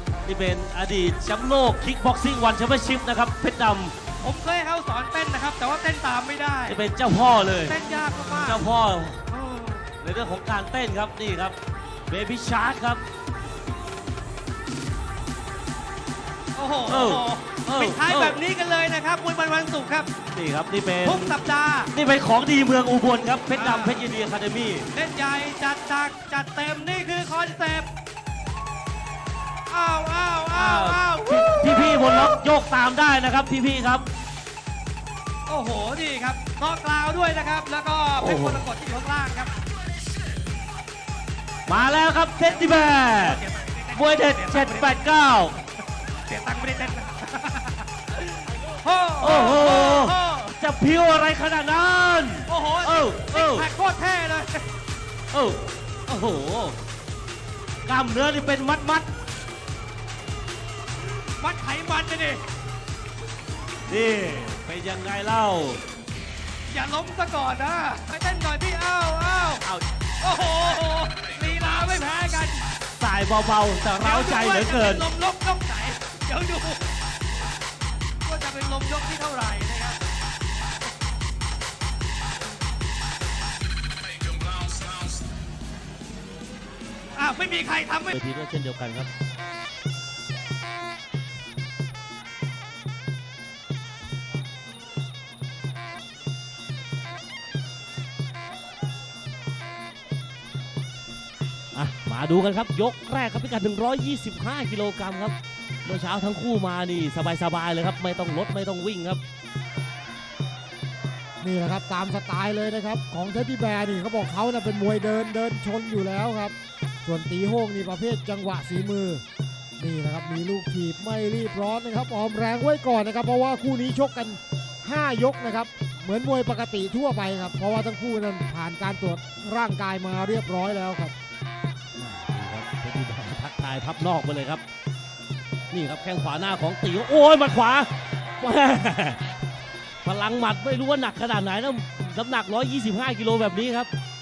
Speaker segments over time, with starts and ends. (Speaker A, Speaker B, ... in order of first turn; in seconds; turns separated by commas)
Speaker A: 0.2-4.0, Speaker B: 4.2-6.8, Speaker A: 6.7-7.8, Speaker B: 7.4-8.7, Speaker A: 8.4-9.2, Speaker B: 9.3-9.9, Speaker A: 10.0-11.6, Speaker A: 12.1-13.0, Speaker B: 16.6-20.1, Speaker A: 16.9-18.4, Speaker A: 20.3-21.4, Speaker B: 21.0-21.9, Speaker A: 21.9-24.9, Speaker B: 23.5-24.1, Speaker B: 24.9-27.9, Speaker B: 29.7-32.4, Speaker A: 30.5-34.1, Speaker B: 35.5-39.5, Speaker A: 38.1-38.7, Speaker A: 41.7-45.6, Speaker B: 42.5-45.0, Speaker B: 46.3-50.5, Speaker A: 49.2-53.7, Speaker B: 52.5-54.6, Speaker A: 55.3-56.8, Speaker A: 57.9-59.0, Speaker B: 61.4-62.4, Speaker A: 63.9-65.8, Speaker B: 66.7-69.6, Speaker B: 70.2-72.6, Speaker A: 73.0-75.1, Speaker B: 74.0-76.9, Speaker B: 78.2-80.0, Speaker B: 87.2-88.1, Speaker A: 88.1-89.1, Speaker A: 101.7-109.2, Speaker C: 111.4-119.2, Speaker C: 119.8-131.1, Speaker A: 132.0-134.6, Speaker A: 135.7-139.2, Speaker A: 140.0-143.9